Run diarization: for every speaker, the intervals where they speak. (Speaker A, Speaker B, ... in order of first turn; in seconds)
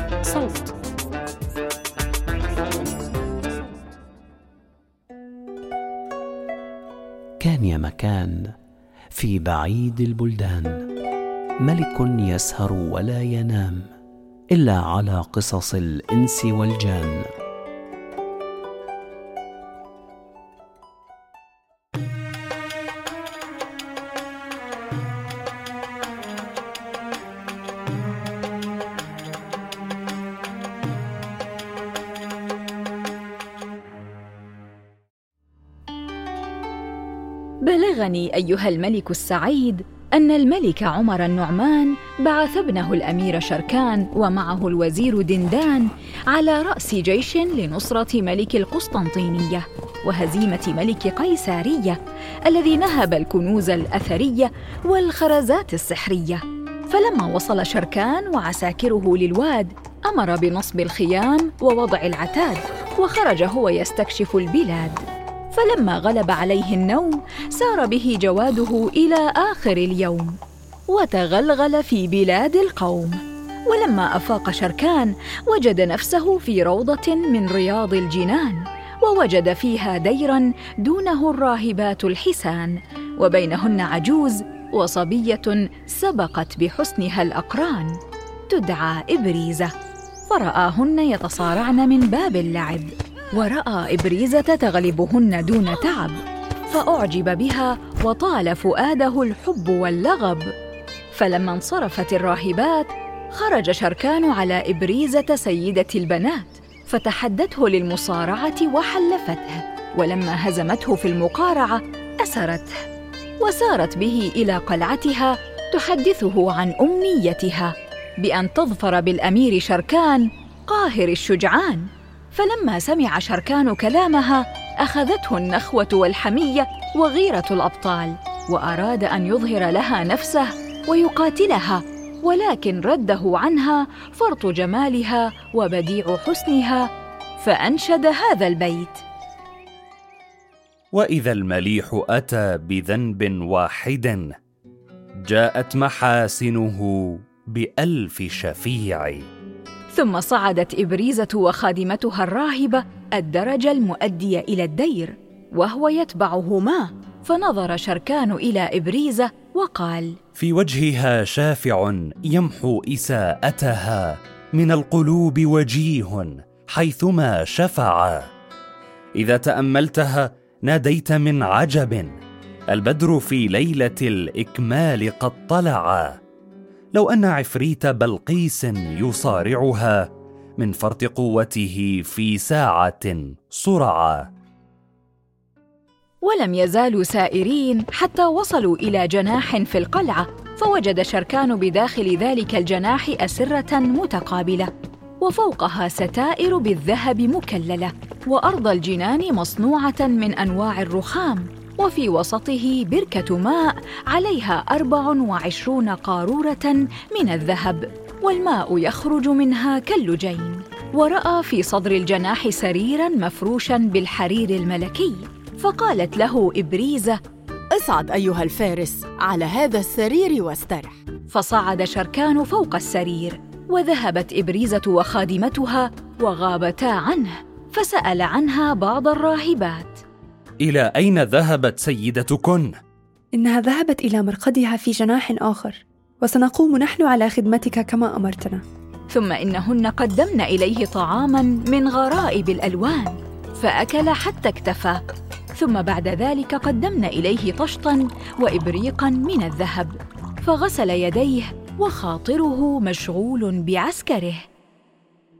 Speaker A: 7.4-8.5, 9.1-10.9, 11.6-13.9, 14.5-17.3
Speaker B: 37.6-65.0, 65.5-70.3, 70.9-88.0, 88.5-89.7, 90.3-100.5, 101.1-112.7, 113.4-136.8, 137.4-139.0, 149.9-160.2, 186.2-194.7, 195.2-217.2, 221.3-230.0, 239.1-245.0, 245.6-254.4
Speaker C: 140.9-144.3, 145.2-149.2, 160.3-168.2, 169.2-172.1, 172.7-176.1, 176.9-180.1, 180.6-184.2, 230.6-232.7
Speaker D: 217.7-221.0
Speaker E: 233.3-238.6